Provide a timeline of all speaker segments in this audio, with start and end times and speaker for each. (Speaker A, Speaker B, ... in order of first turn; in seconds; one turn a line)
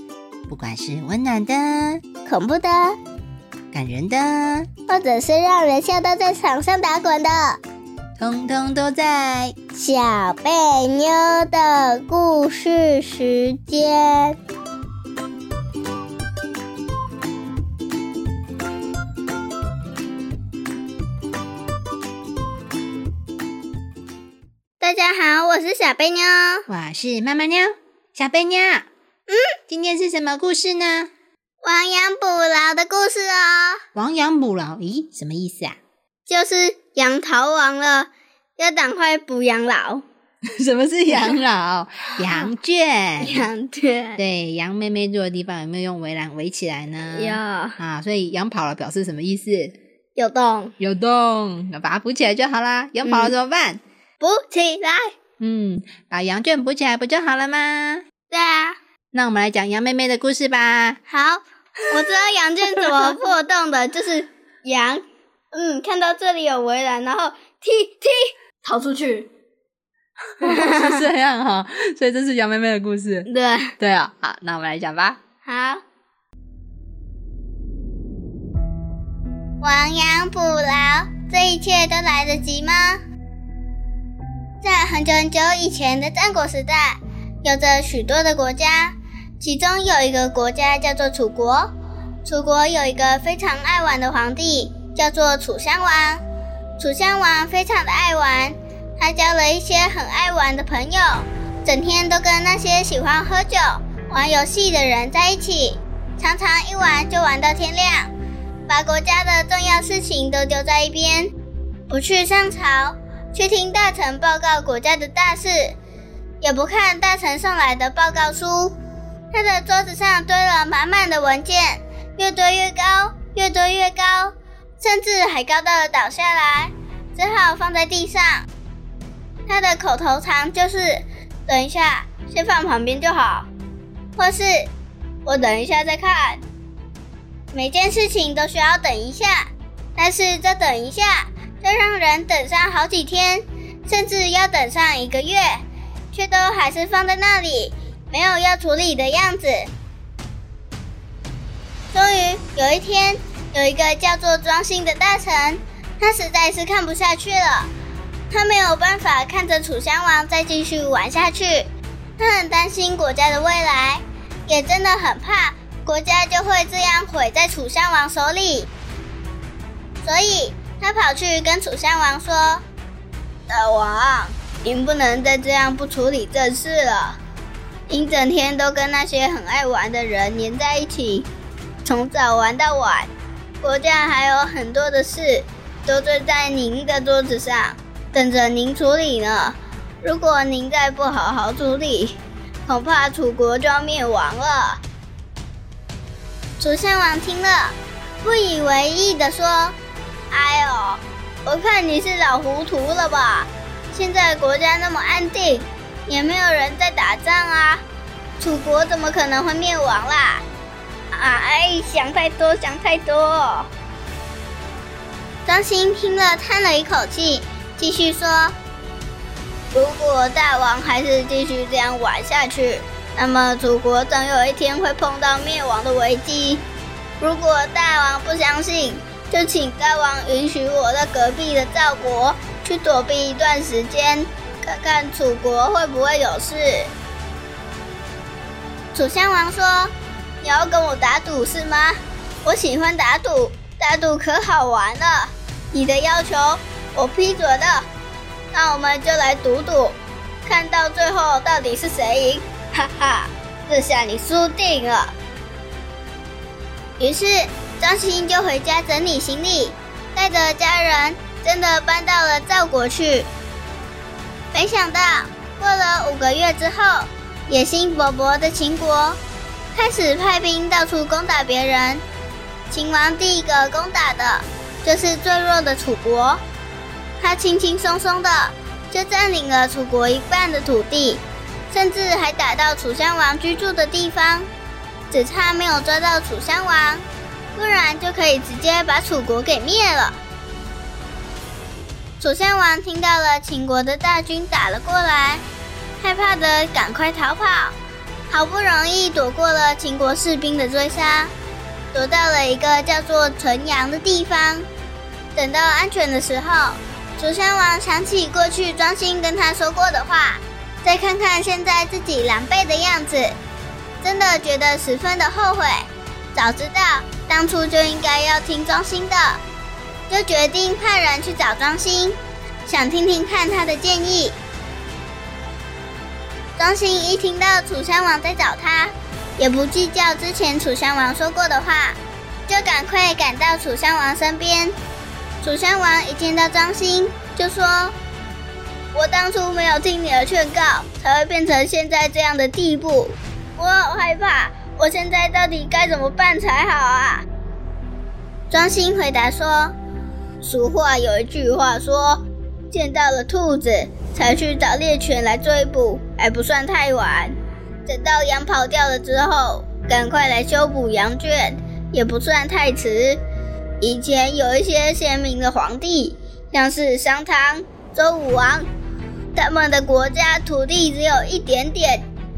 Speaker A: 0.5-2.0
Speaker B: 2.2-3.0
Speaker A: 3.7-4.7
Speaker B: 4.9-7.6
Speaker A: 8.2-9.6
Speaker B: 9.7-14.4
Speaker B: 24.8-26.7
Speaker A: 26.7-28.9
Speaker B: 29.3-29.6
Speaker A: 29.7-31.1
Speaker B: 31.6-33.8
Speaker A: 34.0-35.8
Speaker B: 36.3-40.0
Speaker A: 40.6-43.5
Speaker B: 43.2-44.2
Speaker A: 44.2-49.8
Speaker B: 47.1-47.8
Speaker B: 50.2-50.7
Speaker A: 50.8-53.8
Speaker B: 53.0-53.3
Speaker B: 54.2-55.1
Speaker A: 55.4-58.0
Speaker B: 58.3-58.8
Speaker A: 59.1-61.0
Speaker B: 61.1-69.3
Speaker A: 62.7-63.1
Speaker B: 70.4-71.0
Speaker A: 70.4-75.2
Speaker B: 73.3-73.7
Speaker B: 75.5-75.8
Speaker B: 79.6-83.0
Speaker B: 84.6-91.7
Speaker B: 92.2-96.2
Speaker B: 96.8-108.1
Speaker B: 108.7-111.3
Speaker B: 111.9-115.8
Speaker B: 116.4-118.8
Speaker B: 119.3-128.5
Speaker B: 129.5-133.5
Speaker B: 134.2-134.7
Speaker B: 135.2-136.4
Speaker B: 137.5-145.6
Speaker B: 146.1-149.7
Speaker B: 151.9-157.7
Speaker B: 158.3-161.7
Speaker B: 162.2-168.7
Speaker B: 170.0-172.7
Speaker B: 173.5-177.2
Speaker B: 177.9-181.3
Speaker B: 181.8-183.1
Speaker B: 183.6-194.8
Speaker B: 196.6-199.8
Speaker B: 200.3-207.8
Speaker B: 208.4-210.4
Speaker B: 211.1-213.7
Speaker B: 215.5-218.6
Speaker B: 219.7-226.6
Speaker B: 227.2-236.9
Speaker B: 238.9-247.9
Speaker B: 248.5-255.1
Speaker B: 257.0-263.3
Speaker B: 264.5-269.2
Speaker B: 269.7-272.0
Speaker B: 272.7-276.4
Speaker B: 277.2-284.5
Speaker B: 285.1-287.0
Speaker B: 287.6-290.2
Speaker B: 292.2-295.4
Speaker B: 296.0-297.8
Speaker B: 298.3-301.3
Speaker B: 301.9-304.7
Speaker B: 305.4-313.4
Speaker B: 314.0-319.4
Speaker B: 320.1-324.4
Speaker B: 326.6-334.7
Speaker B: 335.4-338.0
Speaker B: 338.9-347.3
Speaker B: 348.5-349.7
Speaker B: 350.4-357.4
Speaker B: 357.9-363.2
Speaker B: 363.8-368.7
Speaker B: 369.4-372.1